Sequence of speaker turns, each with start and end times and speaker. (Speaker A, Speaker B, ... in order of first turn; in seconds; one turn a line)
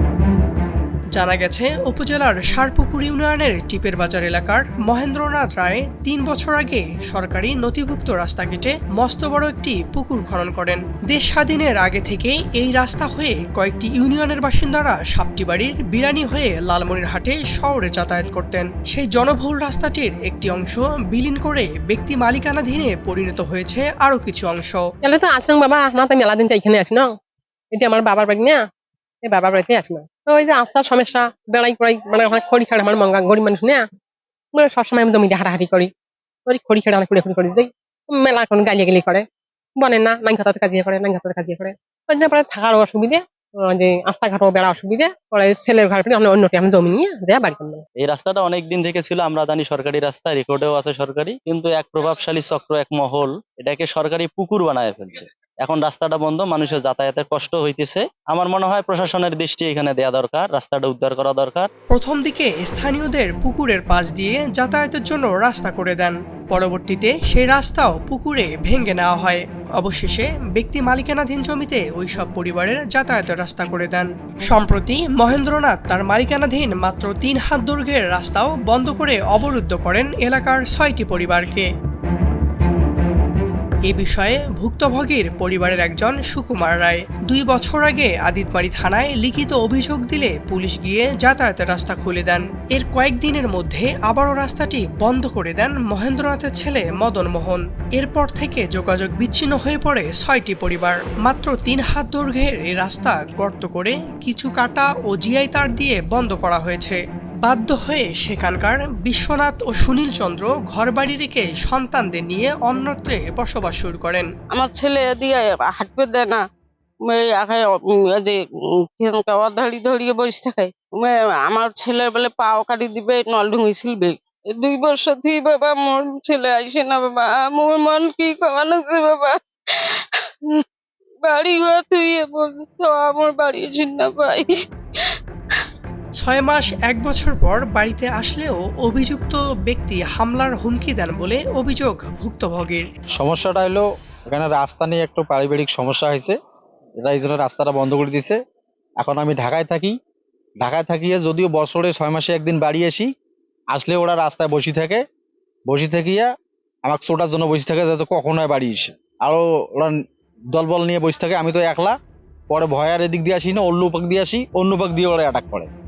Speaker A: 1.1-24.8
Speaker B: 25.0-27.1
Speaker B: 27.7-28.6
Speaker B: 29.2-33.8
Speaker B: 34.5-35.9
Speaker B: 36.5-39.2
Speaker B: 39.8-47.8
Speaker C: 48.0-61.7
Speaker A: 61.9-81.7
Speaker A: 83.9-114.3
Speaker D: 114.5-116.4
Speaker D: 117.0-118.4
Speaker D: 119.0-130.6
Speaker D: 131.2-134.4
Speaker D: 135.0-135.7
Speaker A: 136.2-142.8
Speaker E: 143.2-146.3
Speaker E: 147.0-148.4
Speaker E: 149.0-149.9
Speaker E: 150.6-153.1
Speaker E: 153.7-155.0
Speaker E: 155.7-156.3
Speaker E: 156.8-159.9
Speaker E: 160.5-161.9
Speaker E: 162.5-165.7